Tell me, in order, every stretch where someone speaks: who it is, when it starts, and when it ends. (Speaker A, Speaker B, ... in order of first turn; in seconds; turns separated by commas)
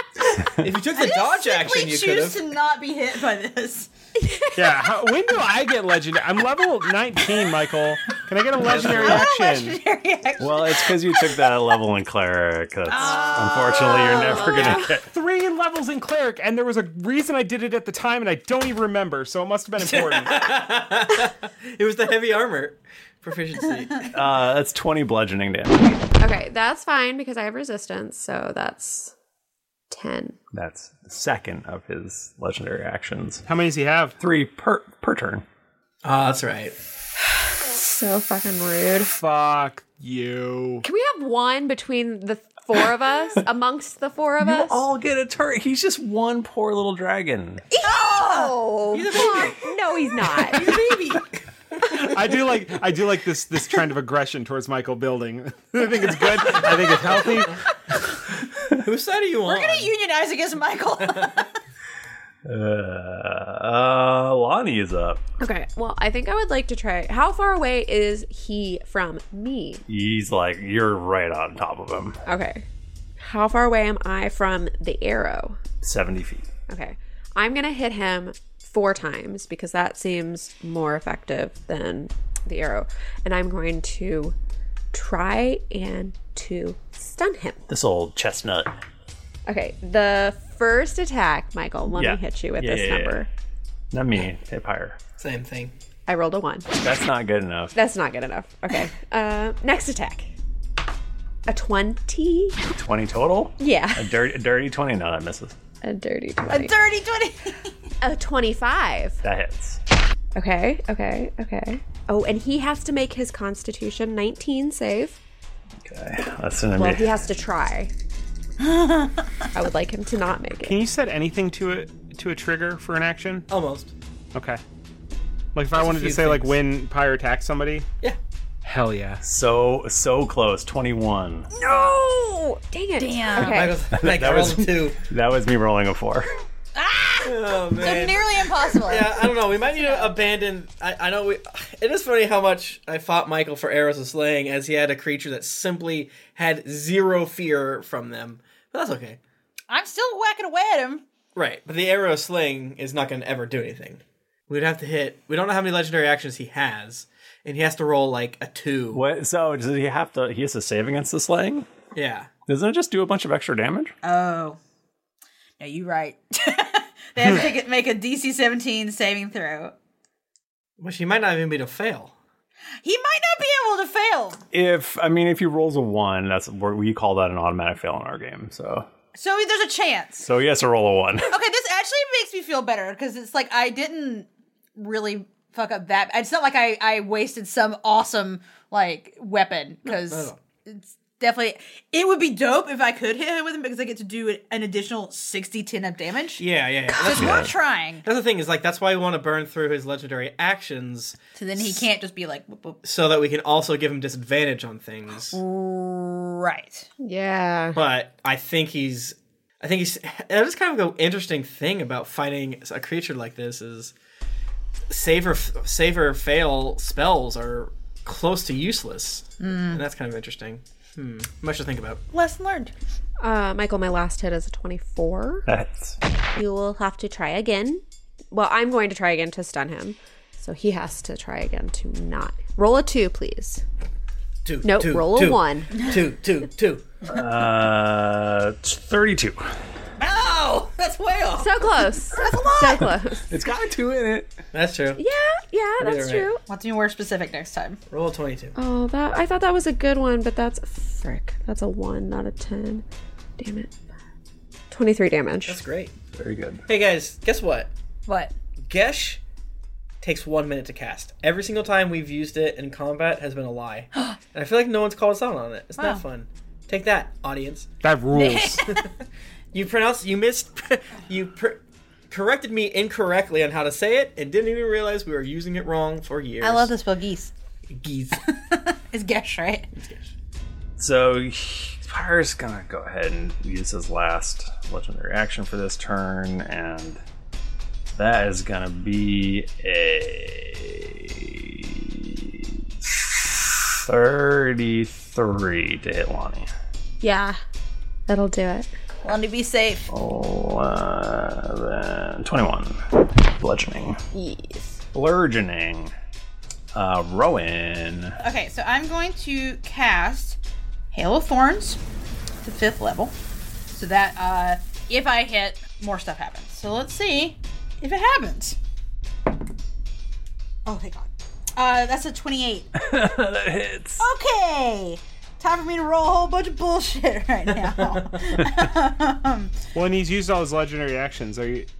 Speaker A: 0.5-2.4, Speaker B: 0.9-3.9, Speaker C: 4.2-4.9, Speaker D: 4.5-9.8, Speaker E: 8.7-9.2, Speaker B: 8.8-11.5, Speaker E: 10.4-15.1, Speaker B: 12.9-14.8, Speaker D: 15.0-20.4, Speaker A: 19.8-24.1, Speaker E: 24.1-26.0, Speaker C: 26.2-29.1, Speaker C: 29.9-30.4, Speaker E: 30.5-33.4, Speaker D: 33.5-34.1, Speaker E: 34.2-35.4, Speaker A: 36.0-36.7, Speaker C: 37.6-39.1, Speaker D: 39.1-40.8, Speaker C: 40.8-44.8, Speaker E: 44.4-47.6, Speaker B: 47.7-48.5, Speaker C: 48.1-50.7, Speaker A: 48.9-49.6, Speaker B: 50.4-51.3, Speaker D: 52.0-57.6, Speaker A: 58.7-59.9, Speaker B: 59.5-61.5, Speaker A: 61.0-61.3, Speaker E: 62.4-65.2, Speaker C: 65.4-69.8, Speaker E: 69.9-72.2, Speaker C: 72.2-72.7, Speaker C: 73.2-75.6, Speaker E: 75.8-76.5, Speaker C: 76.7-84.3, Speaker C: 84.9-87.6, Speaker E: 87.7-88.7, Speaker C: 89.5-93.3, Speaker E: 91.9-93.2, Speaker E: 93.9-95.0, Speaker A: 95.2-95.7, Speaker C: 96.1-96.7, Speaker E: 96.8-97.8, Speaker C: 97.7-100.3, Speaker C: 101.5-102.6, Speaker E: 102.7-105.5, Speaker C: 103.6-104.1, Speaker C: 105.8-106.7, Speaker B: 106.5-107.7, Speaker C: 108.0-109.2, Speaker E: 109.2-109.8, Speaker C: 110.3-115.2, Speaker E: 115.8-117.1, Speaker C: 116.8-117.9, Speaker B: 118.6-119.2, Speaker C: 119.5-120.8, Speaker D: 120.6-123.5, Speaker A: 123.5-123.9, Speaker D: 124.3-124.6, Speaker D: 125.5-127.9, Speaker A: 125.7-126.5, Speaker D: 128.6-129.2, Speaker E: 129.2-131.5, Speaker C: 131.6-133.8, Speaker B: 131.7-132.0, Speaker B: 133.0-133.7, Speaker A: 133.3-135.0, Speaker E: 133.9-136.3, Speaker B: 136.7-140.1, Speaker A: 137.2-149.2, Speaker B: 149.7-151.0, Speaker A: 151.3-159.0, Speaker E: 158.9-161.7, Speaker A: 161.9-162.3, Speaker E: 162.5-163.9, Speaker B: 164.0-164.6, Speaker B: 165.6-169.7, Speaker A: 170.8-172.1, Speaker B: 172.8-174.4, Speaker E: 174.5-178.9, Speaker B: 179.1-180.3, Speaker E: 180.2-181.4, Speaker B: 181.3-198.0, Speaker A: 189.9-190.4, Speaker A: 196.4-197.5, Speaker E: 197.1-197.5, Speaker A: 198.0-201.8, Speaker B: 201.3-202.8, Speaker A: 202.8-205.4, Speaker B: 205.3-206.9, Speaker C: 207.0-207.8, Speaker A: 207.7-213.9, Speaker A: 214.9-222.0, Speaker B: 219.4-219.8, Speaker B: 222.1-222.7, Speaker C: 223.2-225.4, Speaker E: 225.4-226.0, Speaker C: 226.3-233.6, Speaker A: 234.4-236.8, Speaker C: 234.6-235.7, Speaker E: 237.1-239.5, Speaker B: 240.0-241.7, Speaker C: 241.4-243.3, Speaker E: 242.2-244.3, Speaker B: 242.2-242.8, Speaker A: 244.5-245.0, Speaker C: 245.0-246.4, Speaker A: 245.8-246.3, Speaker B: 246.5-247.8, Speaker A: 247.9-248.5, Speaker C: 248.6-252.8, Speaker C: 253.4-253.7, Speaker C: 254.7-255.6, Speaker A: 255.5-255.9, Speaker E: 256.1-256.6, Speaker A: 256.7-257.7, Speaker B: 258.1-258.3, Speaker A: 258.7-259.2, Speaker A: 260.0-267.7, Speaker B: 265.8-266.0, Speaker D: 267.8-268.6, Speaker B: 268.1-268.9, Speaker A: 269.5-276.7, Speaker B: 276.4-277.3, Speaker A: 277.7-278.2, Speaker B: 278.3-279.7, Speaker A: 279.8-280.1, Speaker E: 280.8-287.0, Speaker E: 287.9-292.6, Speaker E: 293.8-296.5, Speaker C: 297.0-297.4, Speaker C: 298.1-298.7, Speaker B: 299.0-299.9, Speaker E: 299.9-304.0, Speaker C: 304.1-304.8, Speaker E: 304.9-305.9, Speaker E: 306.7-308.2, Speaker B: 308.2-310.4, Speaker B: 310.9-311.8, Speaker B: 312.4-313.1, Speaker B: 313.7-318.6, Speaker B: 320.6-322.7, Speaker E: 322.8-324.1, Speaker B: 324.0-329.6, Speaker D: 329.7-331.7